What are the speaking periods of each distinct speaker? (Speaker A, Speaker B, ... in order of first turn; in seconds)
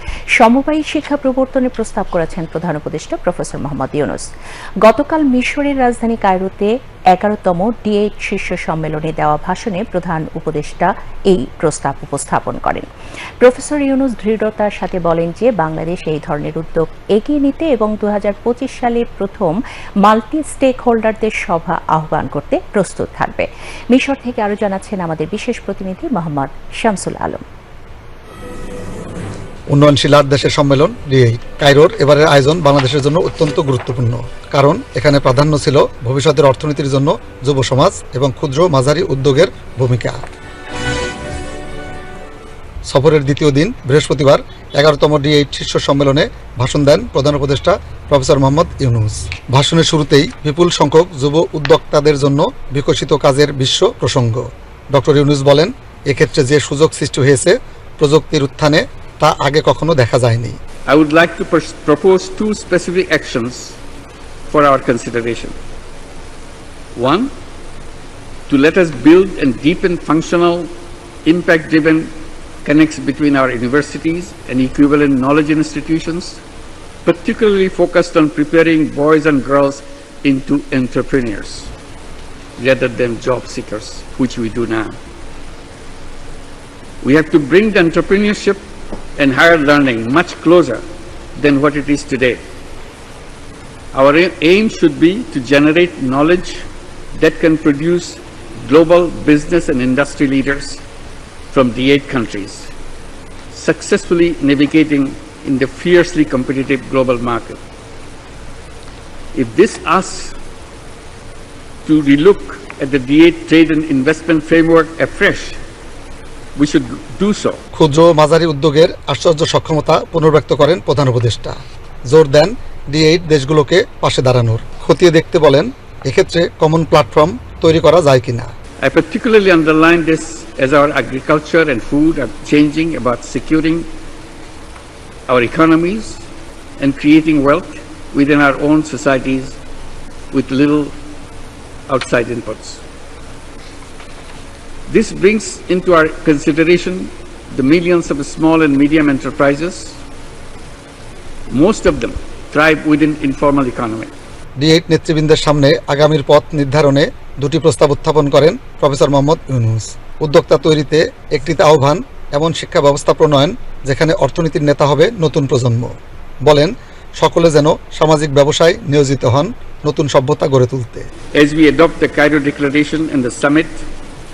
Speaker A: 0.4-4.2, 4.8-12.8, 13.4-27.4
Speaker B: 29.7-40.2, 42.9-60.5, 117.7-121.6, 122.1-128.5, 154.6-165.9, 166.4-171.1
Speaker C: 60.9-63.8, 64.5-65.5, 66.9-67.3, 68.5-70.7, 71.2-76.4, 77.0-81.7, 82.6-85.0, 87.0-92.4, 93.9-100.8, 101.5-102.7, 103.5-107.6, 109.3-110.3, 111.8-115.6, 116.5-117.6, 128.8-133.9, 135.3-136.2, 136.8-139.6, 140.3-140.9, 141.9-142.8, 144.9-150.0, 151.5-154.1, 171.3-173.9